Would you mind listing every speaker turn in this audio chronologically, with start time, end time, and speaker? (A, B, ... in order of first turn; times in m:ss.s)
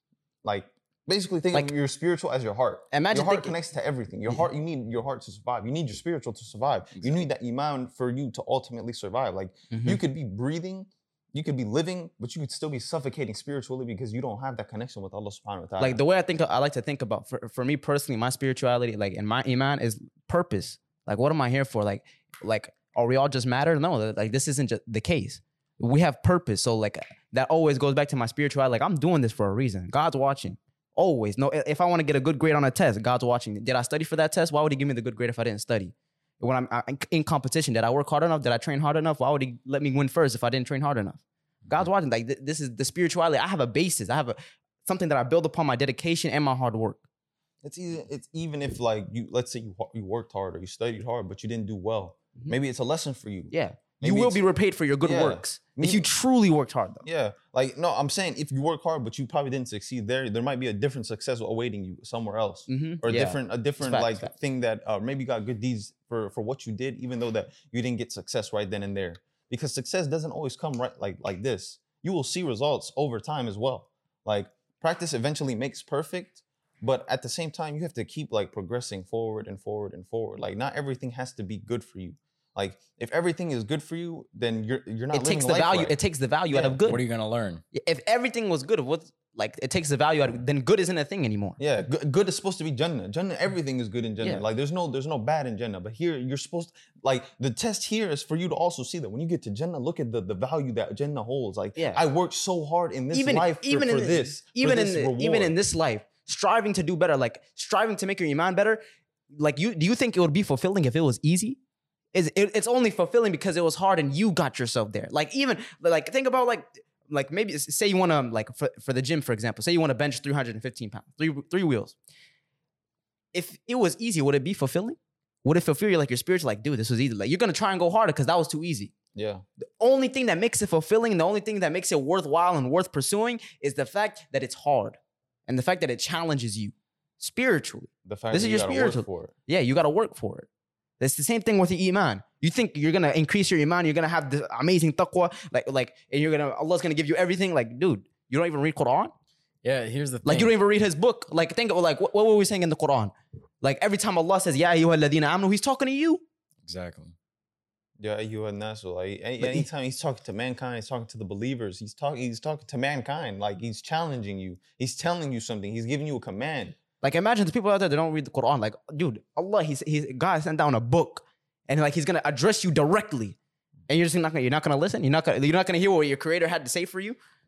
0:00.4-0:16.0 A
0:02.9-0:03.6 B
0:09.7-0:10.0 B
0:15.8-0:47.0 B
0:47.6-0:54.5 A
0:53.5-0:57.1 B
0:55.0-0:56.1 A
0:57.0-1:26.0 A
1:02.7-1:04.3 B
1:25.1-1:27.0 B
1:26.5-1:26.8 A
1:26.9-1:27.6 C
1:27.7-1:31.6 B
1:31.6-1:45.5 A
1:43.1-1:51.6 B
1:52.1-2:02.0 B
2:03.3-2:08.9 B
2:09.2-2:09.4 A
2:09.6-2:20.5 B
2:18.0-2:19.3 A
2:21.0-2:29.1 B
2:29.6-2:30.5 C
2:30.2-2:36.2 B
2:36.6-2:37.2 C
2:38.0-2:46.8 A
2:39.4-2:39.7 B
2:47.0-2:53.4 B
2:53.9-2:57.2 B